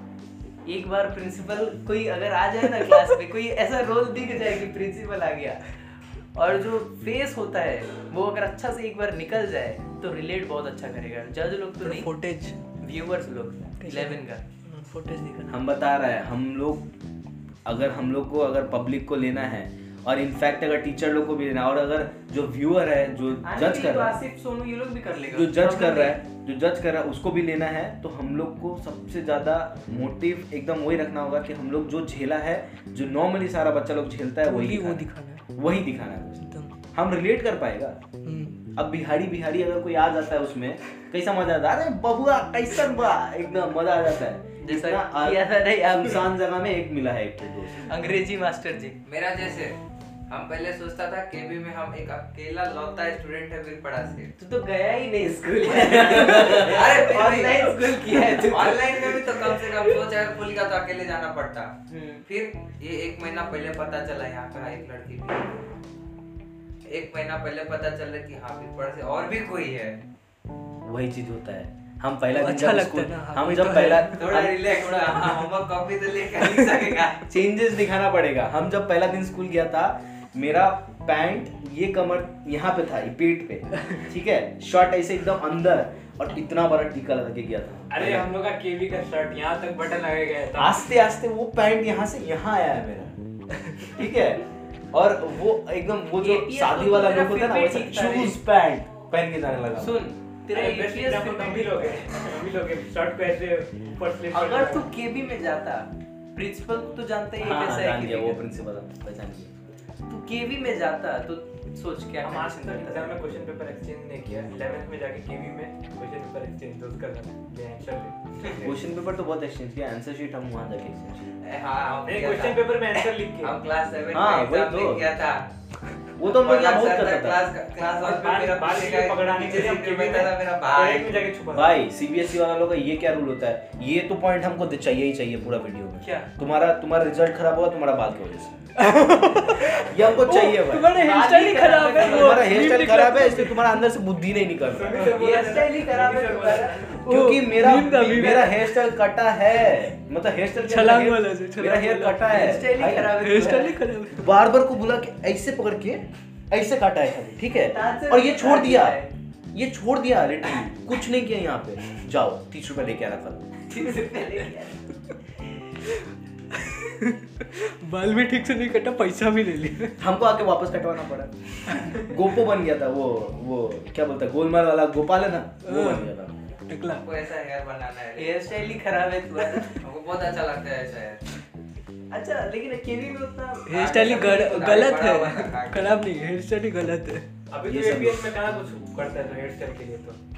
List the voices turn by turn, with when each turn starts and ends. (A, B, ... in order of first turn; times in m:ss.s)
0:00.6-0:05.8 A
0:06.3-0:12.1 A
0:11.8-0:12.6 B
0:12.8-0:14.4 A
0:13.8-0:15.6 B
0:15.5-0:16.8 C
0:17.6-0:24.2 C
0:23.4-0:26.2 A
0:25.3-0:38.0 C
0:34.4-0:35.4 B
0:36.4-0:36.7 B
0:38.2-0:38.6 B
0:38.7-0:47.9 C
0:44.6-0:46.3 A
0:47.8-0:49.0 A
0:49.0-0:49.8 D
0:50.3-0:54.3 D
0:54.4-0:59.6 A
0:56.6-1:01.7 D
1:01.9-1:02.2 A
1:02.2-1:05.5 D
1:06.8-1:10.0 D
1:10.8-1:14.7 C
1:12.3-1:14.2 B
1:14.2-1:17.2 D
1:17.2-1:28.3 C
1:27.9-1:30.9 E
1:30.6-1:33.2 C
1:33.9-1:40.0 C
1:36.2-1:38.4 A
1:39.8-1:42.1 A
1:40.5-1:44.9 E
1:44.3-1:48.4 A
1:47.4-1:49.5 C
1:50.1-1:53.2 A
1:52.2-1:58.8 E
1:58.6-2:01.3 C
2:01.4-2:05.4 D
2:02.0-2:03.6 E
2:04.1-2:05.0 C
2:06.2-2:07.4 C
2:06.2-2:11.2 D
2:08.0-2:11.8 E
2:11.5-2:18.7 C
2:18.8-2:23.7 B
2:19.6-2:20.9 C
2:20.9-2:22.8 A
2:22.0-2:25.1 C
2:24.7-2:27.1 E
2:25.1-2:27.0 A
2:26.9-2:28.9 B
2:27.0-2:33.4 C
2:30.6-2:32.5 B
2:32.3-2:33.8 A
2:33.1-2:34.3 B
2:34.1-2:39.0 C
2:37.7-2:39.1 A
2:39.5-2:43.5 C
2:43.7-2:44.9 A
2:46.5-2:50.0 B
2:50.0-2:56.5 C
2:51.7-2:51.9 B
2:55.6-2:56.1 B
2:56.7-2:57.0 B
2:56.9-2:58.6 D
2:58.2-2:59.8 A
2:59.8-3:01.2 D
3:02.1-3:04.5 A
3:03.7-3:07.3 B
3:03.7-3:06.0 D
3:07.5-3:10.2 E
3:07.6-3:08.2 C